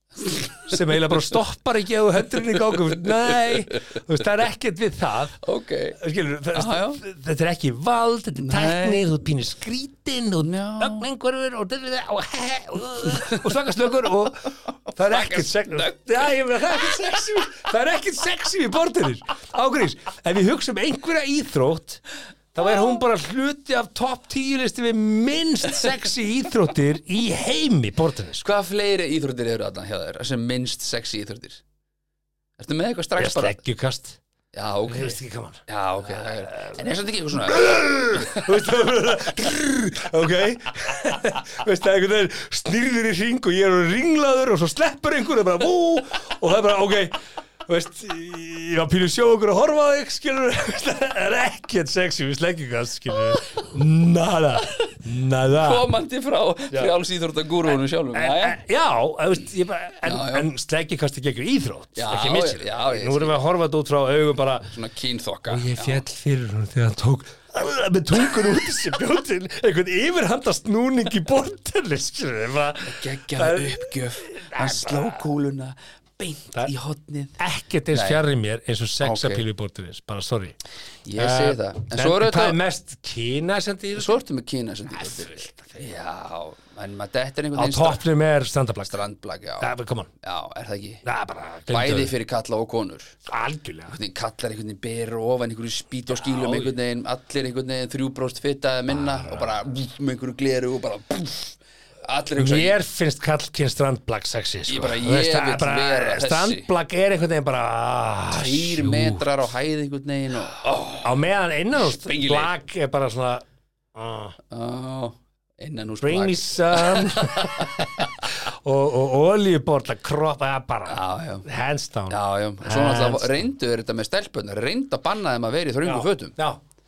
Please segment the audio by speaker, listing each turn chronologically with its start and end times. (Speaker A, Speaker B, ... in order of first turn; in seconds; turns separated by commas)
Speaker A: 0.3-0.8, Speaker B: 0.6-5.4, Speaker A: 2.4-3.6, Speaker A: 5.4-6.0, Speaker B: 6.0-28.4, Speaker A: 6.5-7.0, Speaker A: 8.4-9.1, Speaker A: 10.4-11.1, Speaker A: 13.1-13.4, Speaker A: 15.0-16.0, Speaker A: 28.4-31.6, Speaker A: 32.6-33.6, Speaker B: 33.2-34.2, Speaker A: 34.5-37.6, Speaker B: 34.9-55.9, Speaker A: 38.1-38.5, Speaker A: 55.6-58.6, Speaker B: 58.1-64.7, Speaker A: 60.0-60.5, Speaker A: 62.0-63.4, Speaker A: 64.7-66.0, Speaker B: 65.5-75.2, Speaker A: 72.8-77.4, Speaker B: 77.4-80.6, Speaker A: 77.9-78.2, Speaker A: 79.0-79.4, Speaker A: 81.0-82.6, Speaker B: 81.2-84.2, Speaker A: 84.0-88.0, Speaker B: 84.9-85.9, Speaker B: 87.5-89.0, Speaker A: 88.9-91.0, Speaker B: 89.6-90.1, Speaker B: 91.0-92.1, Speaker A: 91.7-93.2, Speaker B: 93.3-94.0, Speaker A: 93.9-102.8, Speaker B: 96.3-96.7, Speaker B: 98.9-99.5, Speaker B: 102.4-109.3, Speaker A: 104.7-106.7, Speaker A: 108.3-111.2, Speaker B: 111.0-114.4, Speaker A: 111.8-112.5, Speaker A: 114.5-118.2, Speaker B: 116.0-123.4, Speaker A: 120.9-121.5, Speaker A: 122.1-126.3, Speaker B: 125.8-126.6